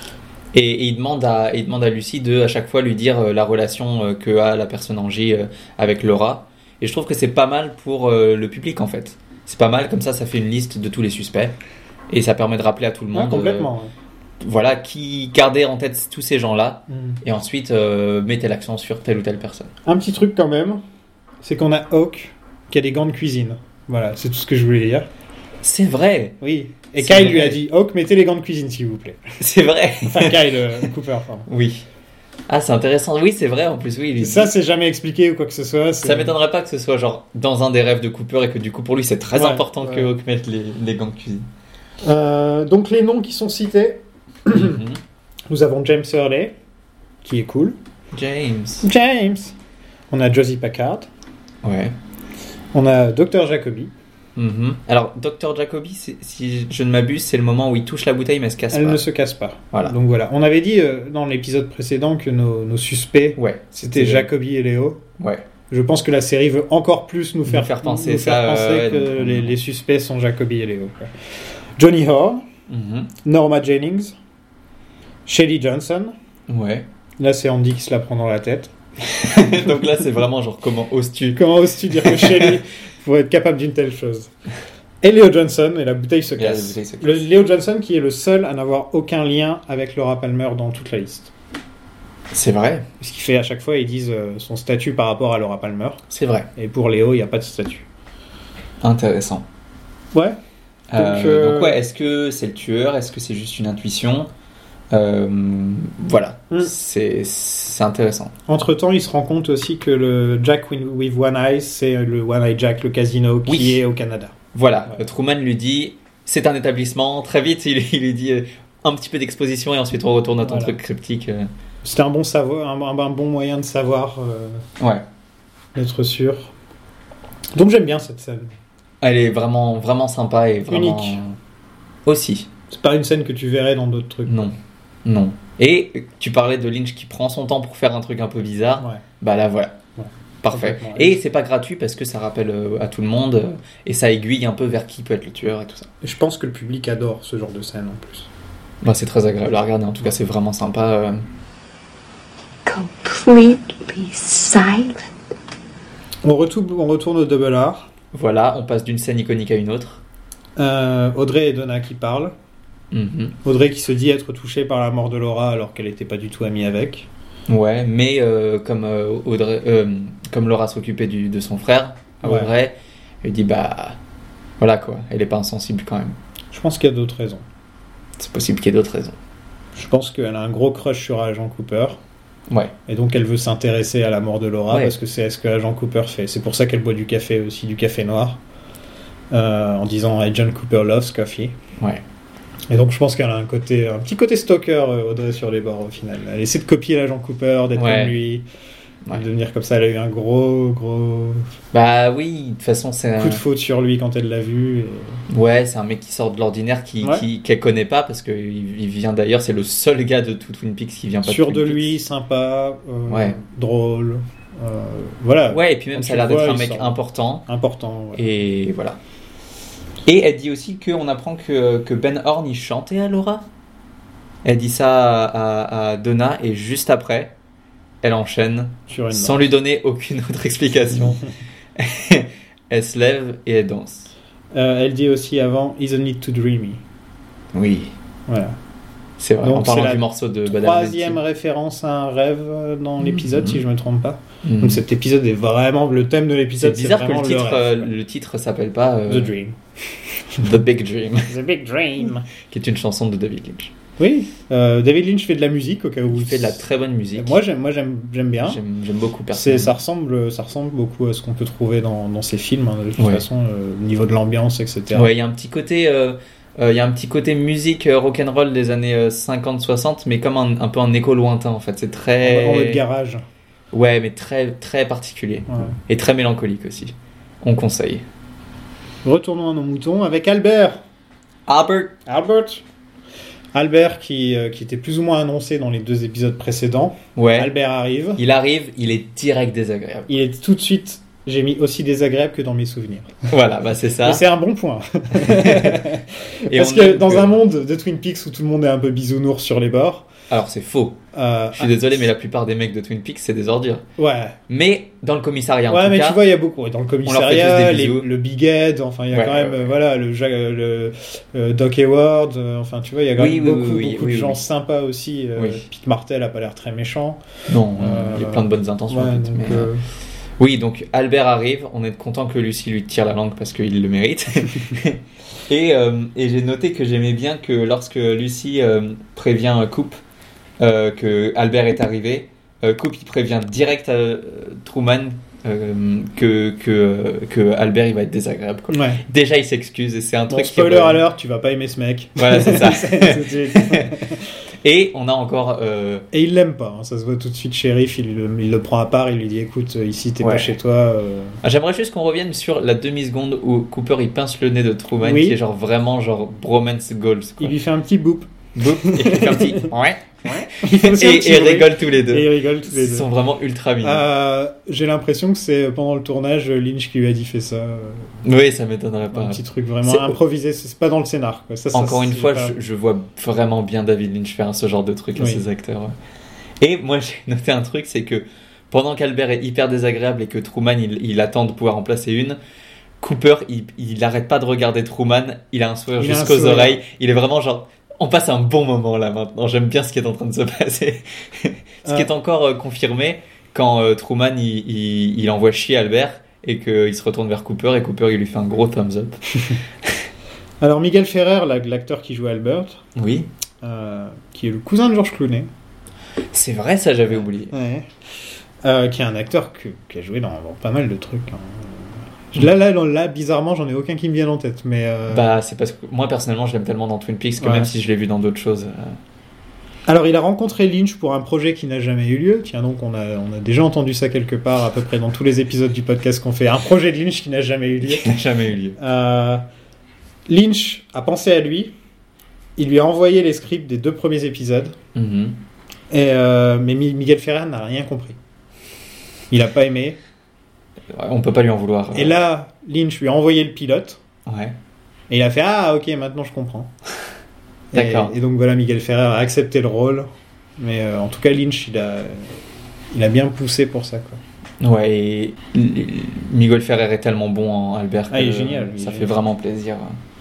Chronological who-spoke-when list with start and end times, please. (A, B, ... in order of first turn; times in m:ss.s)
0:00.5-0:11.6 A
0:12.1-0:13.7 A
0:13.1-0:13.9 B
0:14.4-0:19.7 A
0:16.9-0:17.2 B
0:19.8-0:20.8 B
0:21.4-0:25.1 B
0:25.6-0:26.4 A
0:26.4-0:29.2 B
0:27.0-0:27.6 A
0:29.4-0:30.9 A
0:30.1-0:31.5 B
0:31.5-0:31.8 A
0:32.5-0:34.5 A
0:34.2-0:36.4 B
0:36.0-0:41.5 A
0:39.3-0:40.1 B
0:42.0-0:44.8 B
0:44.5-0:45.0 A
0:45.5-0:46.6 B
0:47.2-0:47.8 B
0:48.1-0:48.9 A
0:48.8-0:49.5 B
0:50.1-0:51.1 B
0:51.6-0:52.0 A
0:52.7-0:53.9 B
0:54.4-0:59.0 A
0:58.7-1:05.0 B
1:03.4-1:04.3 A
1:05.2-1:05.5 A
1:05.7-1:11.1 B
1:07.5-1:09.5 A
1:11.8-1:12.4 B
1:12.7-1:13.1 A
1:13.2-1:14.2 B
1:15.3-1:16.2 B
1:16.5-1:16.9 A
1:17.2-1:18.7 B
1:19.0-1:22.6 A
1:21.4-1:24.3 B
1:25.0-1:31.3 B
1:26.4-1:27.3 A
1:32.3-1:32.9 A
1:33.0-1:36.0 B
1:36.1-1:36.5 A
1:36.6-1:37.9 B
1:38.8-1:39.5 A
1:40.1-1:40.4 B
1:40.9-1:44.3 A
1:41.0-1:41.8 B
1:44.9-1:48.4 A
1:48.5-1:54.4 B
1:53.5-1:53.8 A
1:54.5-2:01.5 A
2:00.4-2:00.8 B
2:01.8-2:04.6 B
2:04.8-2:05.0 A
2:05.8-2:06.5 B
2:07.5-2:08.5 B
2:09.0-2:11.4 A
2:10.7-2:11.2 B
2:12.1-2:12.5 A
2:12.7-2:14.5 B
2:14.3-2:19.8 A
2:20.0-2:21.2 B
2:20.4-2:25.9 A
2:26.0-2:28.3 B
2:28.8-2:31.2 A
2:32.7-2:35.0 C
2:36.2-2:37.9 B
2:38.1-2:40.0 A
2:40.6-2:42.3 B
2:42.9-2:43.4 A
2:43.4-2:47.1 B
2:47.5-2:54.0 A
2:52.2-2:52.5 B
2:54.6-2:56.2 A
2:56.5-2:57.4 B
2:58.2-2:59.2 A
2:59.8-3:02.0 B
3:02.5-3:02.8 A
3:02.9-3:08.4 B
3:09.3-3:11.6 B
3:11.8-3:12.0 A
3:12.7-3:18.5 B
3:17.8-3:18.2 A
3:19.1-3:21.5 B
3:21.7-3:23.4 A
3:23.2-3:25.2 B
3:25.3-3:32.0 A
3:31.2-3:38.2 B
3:33.1-3:33.4 A
3:35.5-3:37.5 A
3:38.2-3:39.0 A
3:40.0-3:43.5 A
3:44.4-3:47.3 A
3:48.0-3:51.2 A
3:48.9-3:49.5 B
3:51.8-3:54.1 A
3:54.5-3:56.8 B
3:57.5-3:57.9 A
3:58.3-3:58.6 B
3:59.2-4:01.2 A
3:59.4-4:07.9 B
4:03.0-4:03.6 A
4:04.4-4:04.8 A
4:06.6-4:09.3 A
4:09.1-4:09.6 B
4:10.4-4:11.4 A
4:11.3-4:12.3 B
4:12.5-4:13.7 A
4:14.0-4:16.6 B
4:16.1-4:17.4 A
4:17.2-4:18.6 B
4:18.4-4:19.7 A
4:19.3-4:25.1 B
4:23.0-4:23.2 A
4:24.9-4:32.8 A
4:32.2-4:33.2 B
4:33.7-4:38.0 A
4:39.0-4:40.8 B
4:41.5-4:42.0 A
4:42.1-4:42.6 B
4:43.5-4:48.2 B
4:47.2-4:47.5 A
4:48.2-4:50.2 A
4:50.1-4:53.2 B
4:53.3-4:54.2 A
4:54.0-5:00.1 B
4:55.2-4:55.9 A
4:56.5-4:57.4 A
5:00.3-5:01.0 A
5:01.1-5:01.7 B
5:01.6-5:03.8 A
5:04.0-5:04.4 B
5:04.5-5:06.2 A
5:05.7-5:19.8 B
5:07.0-5:08.1 A
5:09.1-5:09.7 A
5:13.2-5:14.4 A
5:15.4-5:15.6 A
5:17.5-5:19.7 A
5:20.4-5:30.0 A
5:30.6-5:41.0 A
5:38.7-5:39.0 B
5:40.3-5:44.3 B
5:42.2-5:43.9 A
5:44.6-5:46.1 A
5:46.1-5:51.4 B
5:50.2-5:50.5 A
5:51.4-5:57.6 A
5:55.0-5:55.4 B
5:57.4-5:59.7 B
5:58.6-6:04.1 A
6:00.2-6:03.1 B
6:03.8-6:08.2 B
6:08.2-6:10.2 A
6:09.1-6:12.6 B
6:11.7-6:16.0 A
6:15.2-6:15.4 B
6:16.6-6:22.4 A
6:23.0-6:39.2 A
6:26.0-6:26.8 B
6:40.6-6:42.8 B
6:43.0-6:43.3 A
6:43.6-6:45.5 B
6:46.3-6:47.5 A
6:47.1-6:47.9 B
6:48.6-6:55.3 B
6:55.1-6:59.0 A
6:57.4-6:57.7 B
6:59.9-7:08.1 B
7:07.8-7:08.8 A
7:08.8-7:09.4 B
7:10.3-7:11.7 B
7:12.6-7:14.8 B
7:15.0-7:15.4 A
7:15.9-7:18.2 B
7:19.3-7:20.0 B
7:20.9-7:22.2 A
7:21.9-7:24.0 B
7:24.3-7:24.6 A
7:25.1-7:26.7 B
7:27.7-7:32.4 B
7:27.7-7:28.2 A
7:32.9-7:34.2 B
7:34.6-7:40.0 A
7:38.1-7:39.2 B